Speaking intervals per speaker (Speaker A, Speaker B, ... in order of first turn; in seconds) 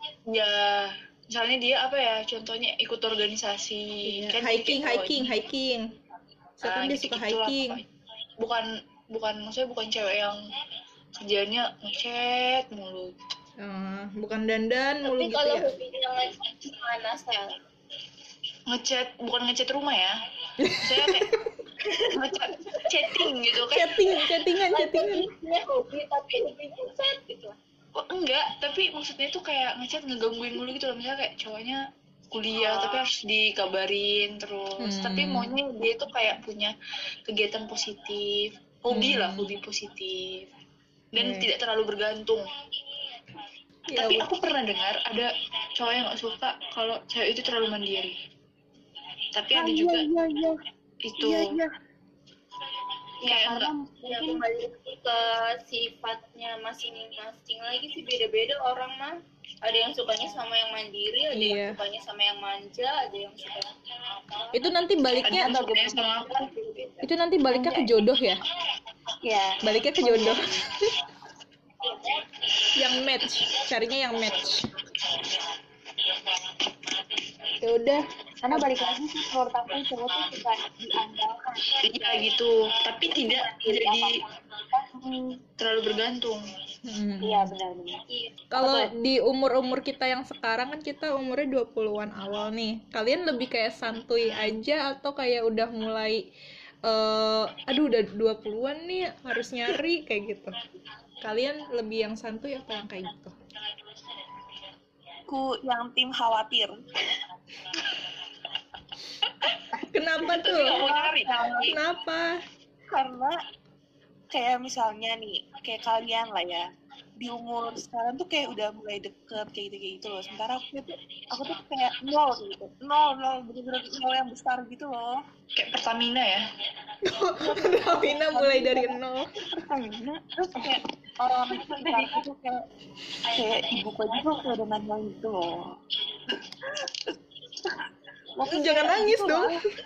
Speaker A: 0.3-5.3, 6.6-7.8, 8.4-10.4, 11.2-13.2, 18.7-20.1, 20.8-21.4, 22.0-24.0, 28.0-31.8, 32.3-36.7, 37.3-40.4, 41.1-42.5, 43.9-48.2, 49.3-50.1, 51.0-51.6, 53.2-53.7, 65.2-66.5, 81.8-84.2, 85.6-86.5, 110.2-111.8, 125.6-126.5
Speaker B: 4.0-5.9, 6.6-7.8, 13.6-15.7, 20.6-21.4, 23.7-25.3, 34.8-35.6, 38.9-39.6, 41.2-41.5, 43.9-44.3, 61.3-61.8, 64.5-65.6, 67.0-68.4, 69.6-71.0, 72.8-74.8, 77.6-78.7, 86.8-87.5, 88.5-96.3, 96.8-100.6, 101.2-103.4, 109.8-110.9, 111.6-112.3, 127.0-129.3, 138.5-139.6
Speaker C: 15.0-17.6, 24.7-27.6, 32.6-33.0, 54.0-63.7
Speaker D: 49.5-50.6, 51.2-51.7, 105.3-106.8, 110.6-111.7, 112.9-113.4, 114.3-116.7, 117.2-125.2, 129.5-132.6, 133.3-135.7, 136.3-137.8, 138.4-139.5
Speaker E: 53.2-54.4, 65.2-67.9, 69.2-70.6, 78.4-82.3, 83.1-85.4, 87.2-88.0, 88.5-88.9, 127.4-128.8, 131.6-132.2, 138.5-139.5